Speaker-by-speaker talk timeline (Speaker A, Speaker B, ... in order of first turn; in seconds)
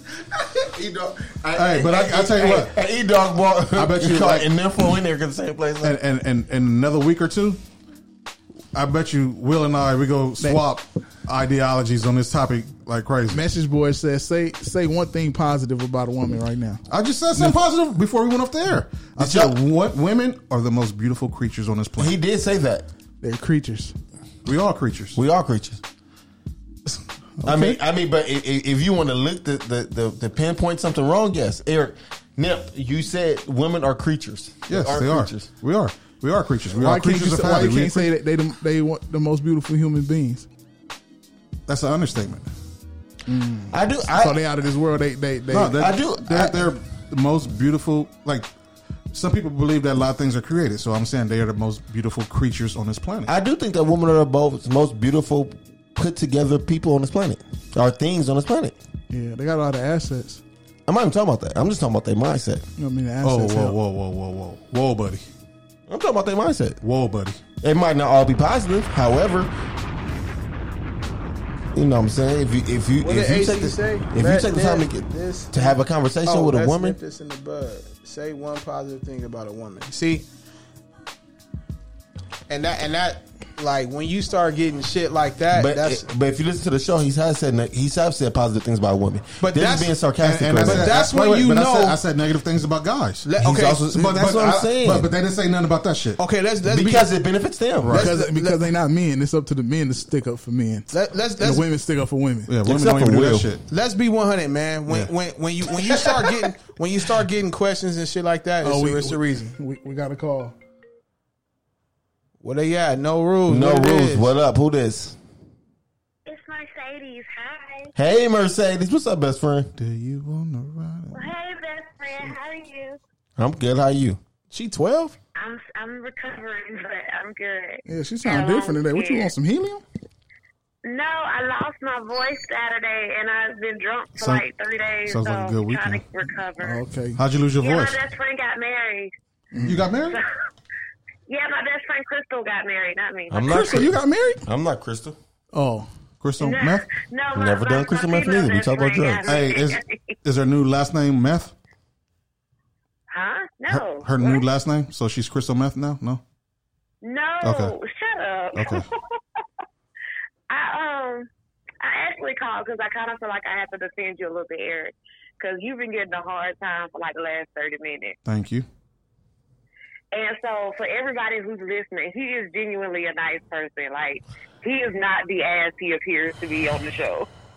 Speaker A: 0.2-6.0, 19.2-19.6, 22.0-22.9, 25.1-25.8, 27.4-35.5, 43.7-44.4, 45.7-46.6, 53.3-58.8, 60.9-62.7, 65.9-66.8, 67.6-69.5, 71.7-77.0, 85.5-91.0, 93.4-95.1, 96.7-98.0, 102.6-103.5, 113.5-115.2, 118.0-119.7, 123.4-124.2, 143.3-145.2, 147.3-149.3
Speaker B: 1.5-2.7, 3.7-4.5, 5.8-7.6, 8.7-13.4, 16.9-22.1, 24.4-25.2, 34.7-38.1, 41.7-42.5, 45.5-48.5, 49.1-53.3, 63.2-65.2, 66.8-67.4, 90.2-96.2, 97.8-98.1, 102.5-103.6, 119.8-121.3, 134.2-134.4, 135.1-136.0, 137.2-138.0, 139.6-140.2, 146.2-146.8, 149.2-151.5, 153.7-156.2, 157.4-157.8, 158.6-158.8, 168.2-168.7
Speaker C: 13.3-16.8, 23.2-23.9, 27.4-27.8, 36.7-40.5, 43.3-45.8, 59.1-60.4, 62.8-63.8, 97.9-102.5, 108.6-110.5, 127.8-129.8, 136.6-137.2, 139.5-139.8, 143.4-144.4, 145.5-145.9
Speaker D: 73.0-80.2, 82.5-86.0, 89.4-90.0, 90.6-92.0, 93.2-94.1, 96.2-97.1, 98.0-98.7, 100.9-101.7, 103.7-109.6, 112.4-114.3, 124.5-125.2
Speaker E: 116.2-117.9, 121.1-123.0, 125.3-129.3, 130.8-136.8, 137.6-139.1, 141.3-143.7, 146.4-150.1, 153.1-154.4, 157.0-159.2, 160.5-161.3, 161.8-168.2, 170.1-177.3